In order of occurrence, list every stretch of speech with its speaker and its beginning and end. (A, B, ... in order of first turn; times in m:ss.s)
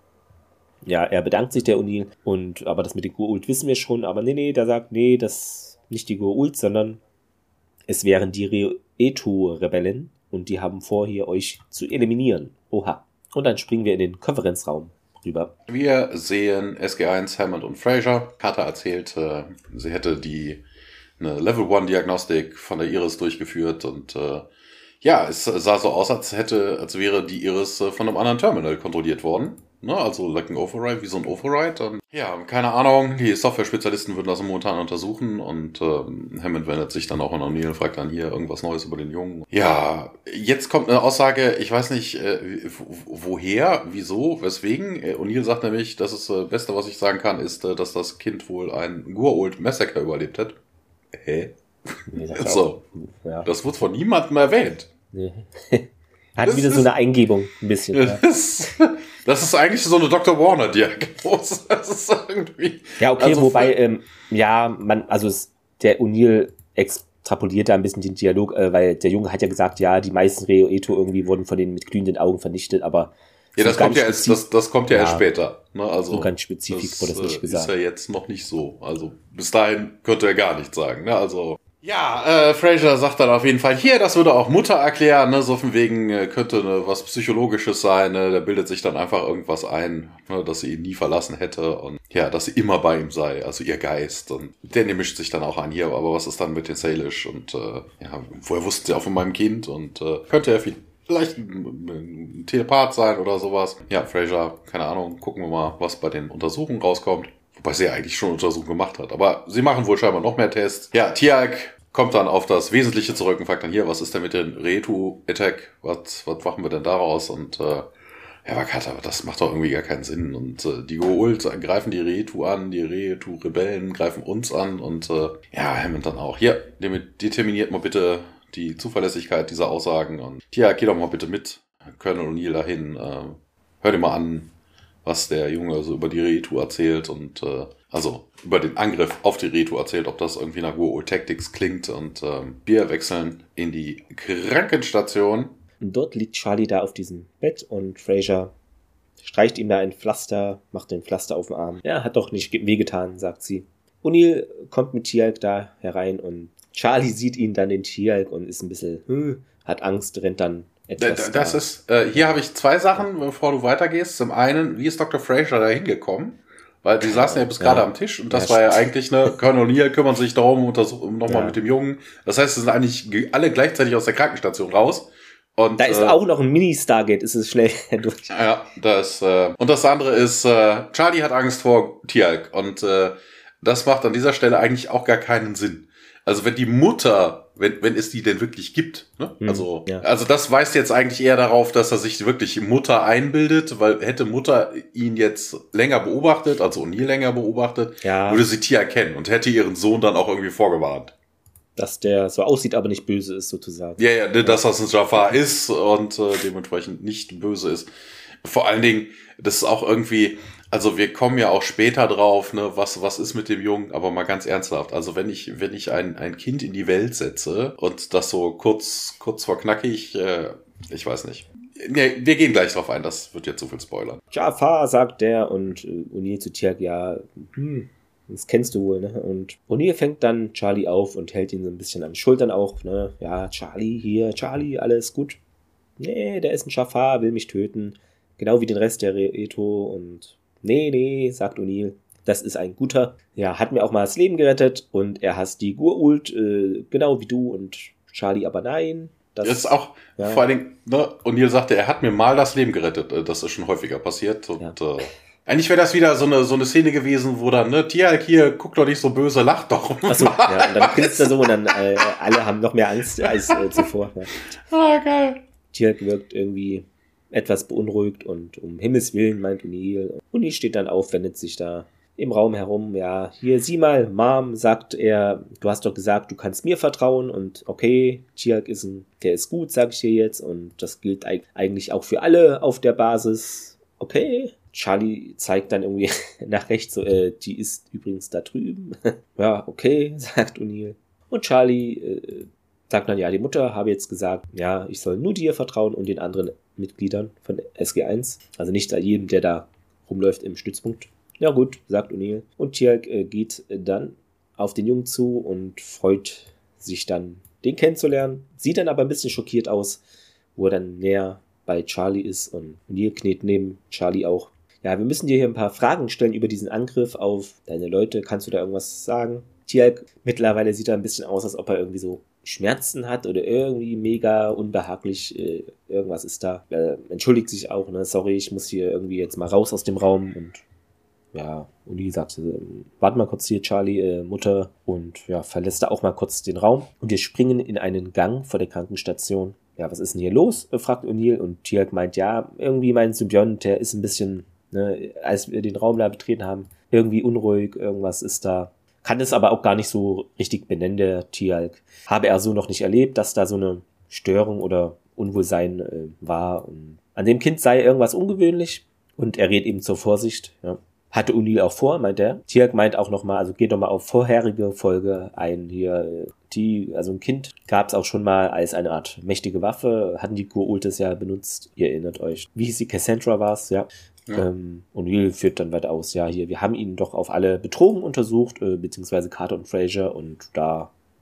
0:00.8-0:07.0 A
0:07.9-0:15.5 A
0:15.7-0:20.6 B
0:21.2-0:24.5 B
0:25.0-0:50.6 B
0:51.1-0:52.8 B
0:52.1-0:53.5 A
0:53.4-0:54.9 B
0:55.1-0:58.2 A
0:56.4-0:56.9 B
0:57.9-1:03.7 B
1:03.0-1:15.2 A
1:13.6-1:57.9 B
1:16.1-1:17.7 A
1:58.4-2:14.5 B
2:15.0-2:25.5 B
2:25.8-2:28.5 A
2:29.2-2:41.6 A
2:41.0-2:56.2 B
2:47.0-2:48.8 A
2:51.3-2:51.6 A
2:55.8-2:58.3 A
2:58.3-3:21.1 B
3:09.4-3:10.0 A
3:18.0-3:18.4 A
3:21.8-3:24.6 A
3:24.0-3:27.9 B
3:28.4-3:44.2 B
3:44.3-3:55.4 A
3:56.0-4:10.5 A
4:09.4-4:22.1 B
4:20.1-4:24.4 A
4:23.2-4:23.8 B
4:24.6-4:25.4 B
4:25.7-5:10.0 A
5:10.6-5:30.6 A
5:31.3-6:20.9 A